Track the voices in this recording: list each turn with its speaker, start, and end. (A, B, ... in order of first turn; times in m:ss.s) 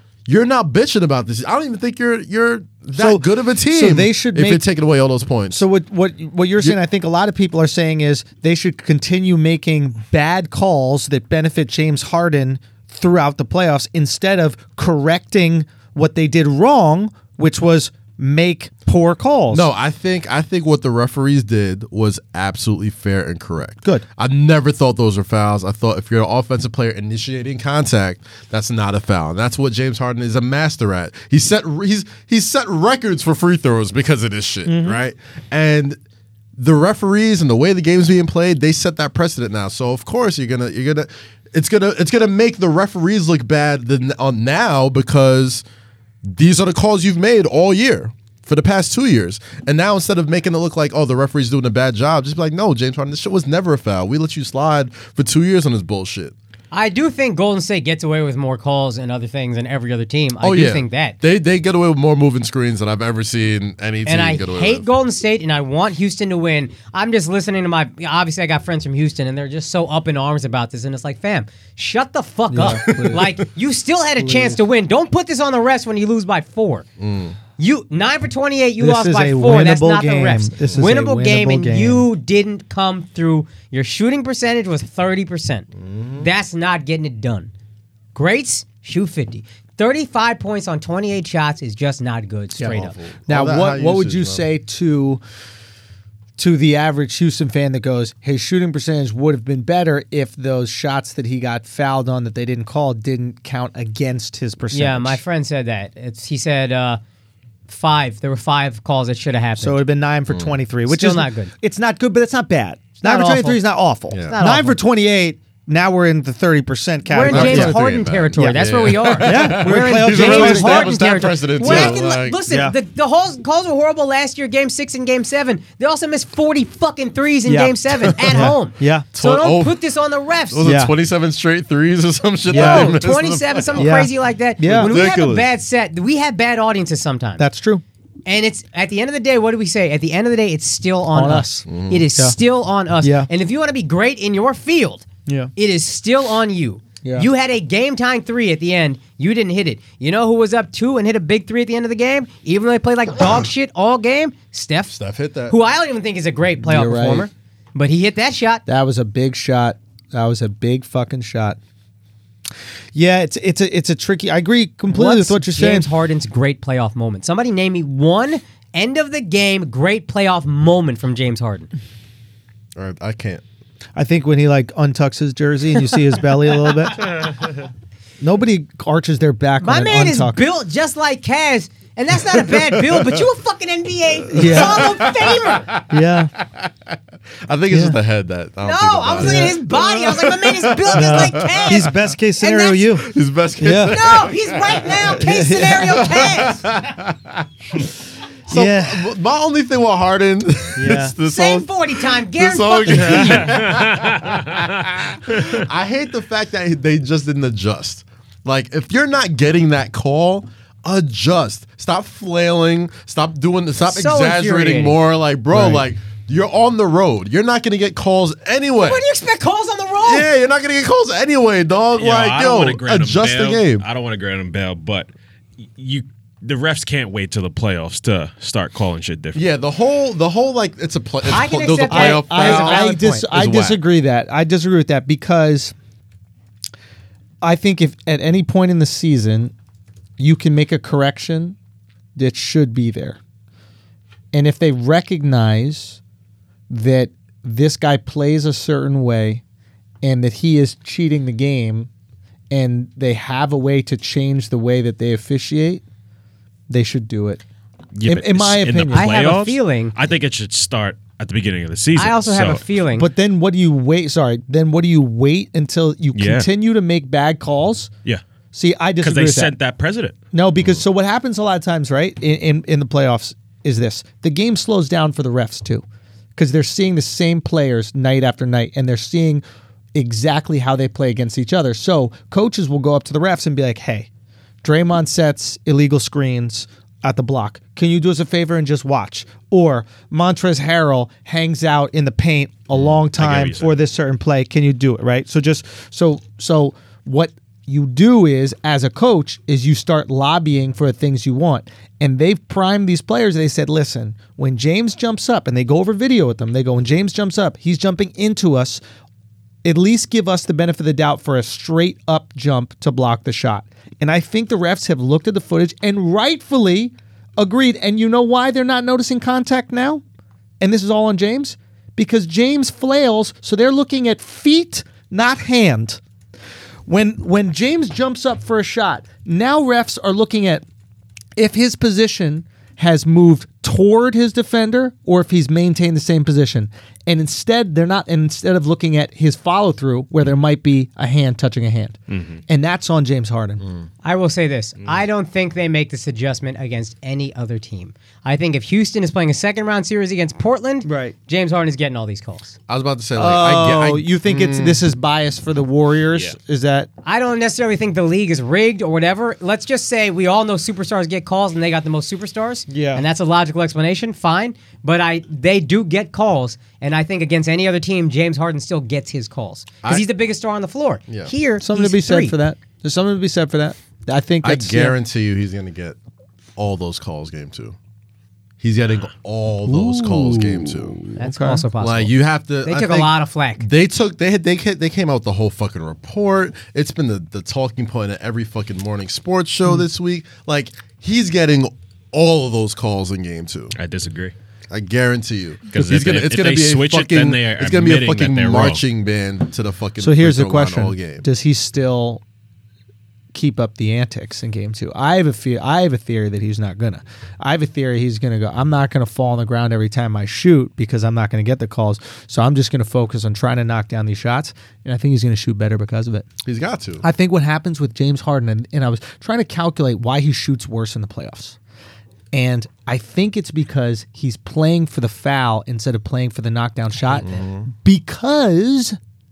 0:00.2-0:05.6 A
0:02.9-0:04.6 B
0:05.5-0:19.7 B
0:19.5-0:36.0 A
0:34.6-0:35.0 B
0:36.6-0:45.6 A
0:46.2-0:56.3 A
0:56.7-1:01.2 C
1:00.4-1:04.8 A
1:04.0-1:16.8 C
1:12.5-1:13.3 B
1:12.8-1:13.3 A
1:14.2-1:14.6 B
1:17.0-1:17.4 A
1:17.6-1:27.5 C
1:18.8-1:22.0 B
1:25.8-1:26.3 A
1:28.1-1:32.9 C
1:32.6-1:34.4 A
1:33.3-1:35.2 B
1:36.4-1:45.2 B
1:44.7-1:47.0 C
1:47.7-1:49.8 C
1:49.6-1:57.8 B
1:50.3-1:50.6 A
1:50.9-1:51.5 C
1:53.0-1:53.6 C
1:54.1-1:54.4 A
1:54.2-1:54.8 C
1:57.1-2:10.6 C
1:57.2-2:02.4 A
1:59.2-2:02.7 B
2:07.4-2:09.1 B
2:09.1-2:09.8 A
2:10.5-2:13.9 A
2:10.6-2:10.9 B
2:12.5-2:13.0 B
2:12.5-2:17.4 C
2:13.8-2:15.0 B
2:14.7-2:15.5 A
2:17.4-2:17.8 B
2:18.2-2:34.9 C
2:21.1-2:21.6 B
2:21.7-2:22.0 A
2:23.0-2:23.3 B
2:25.2-2:25.5 B
2:27.0-2:27.3 B
2:34.9-2:35.6 A
2:35.5-2:38.6 C
2:36.6-2:37.3 B
2:38.6-2:41.6 B
2:42.9-2:45.9 B
2:44.9-2:51.7 C
2:52.8-2:53.4 A
2:54.0-2:57.3 B
2:58.2-3:00.4 B
2:59.6-3:05.7 C
3:02.6-3:03.1 A
3:04.3-3:05.0 B
3:04.3-3:06.7 A
3:05.9-3:06.3 B
3:07.4-3:11.9 A
3:07.7-3:08.0 B
3:08.6-3:12.8 C
3:09.2-3:09.6 B
3:10.9-3:14.0 B
3:13.0-3:15.2 A
3:13.8-3:16.6 C
3:15.2-3:15.8 B
3:15.8-3:17.9 A
3:18.5-3:39.0 A
3:18.5-3:19.1 B
3:20.8-3:21.1 B
3:21.2-3:23.5 C
3:22.9-3:23.5 B
3:23.4-3:24.7 D
3:25.3-3:25.6 D
3:33.8-3:35.0 C
3:35.5-3:35.8 B
3:38.8-3:40.3 C
3:40.0-3:43.8 A
3:42.0-3:45.1 D
3:45.6-3:49.4 D
3:49.3-3:53.8 A
3:51.3-3:53.3 C
3:51.9-3:55.7 B
3:57.4-3:59.5 B
4:00.2-4:01.6 B
4:02.2-4:03.2 B
4:04.3-4:06.0 B
4:06.7-4:09.4 B
4:10.0-4:11.9 B
4:12.5-4:15.8 B
4:16.7-4:17.4 B
4:17.9-4:22.6 D
4:18.0-4:19.1 B
4:18.9-4:19.9 C
4:22.0-4:23.1 C
4:23.0-4:27.9 B
4:26.1-4:26.5 D
4:28.5-4:29.5 B
4:29.0-4:30.2 D
4:30.3-4:35.8 B
4:36.4-4:39.4 B
4:39.9-4:44.1 B
4:44.6-5:08.8 B
4:52.7-4:53.8 D
5:09.6-5:20.0 B
5:20.6-5:26.0 B
5:26.8-5:30.6 B
5:31.4-5:43.6 B
5:42.1-5:42.4 D
5:44.0-5:52.5 C
5:50.8-5:51.1 B
5:52.7-5:54.8 A
5:53.2-5:56.9 B
5:57.0-6:12.3 C
6:02.7-6:03.0 B
6:11.1-6:11.3 A
6:11.6-6:15.0 B
6:14.4-6:16.0 A
6:16.6-6:17.8 A
6:18.6-6:21.0 A
6:19.7-6:21.6 B
6:21.2-6:23.7 C
6:21.8-6:33.7 A
6:33.7-6:34.3 D
6:34.7-6:41.2 A
6:35.7-6:38.8 D
6:40.0-6:42.2 B
6:43.3-6:56.3 B
6:56.4-6:57.0 A
6:57.0-7:01.6 B
7:02.3-7:09.0 B
7:07.1-7:07.7 A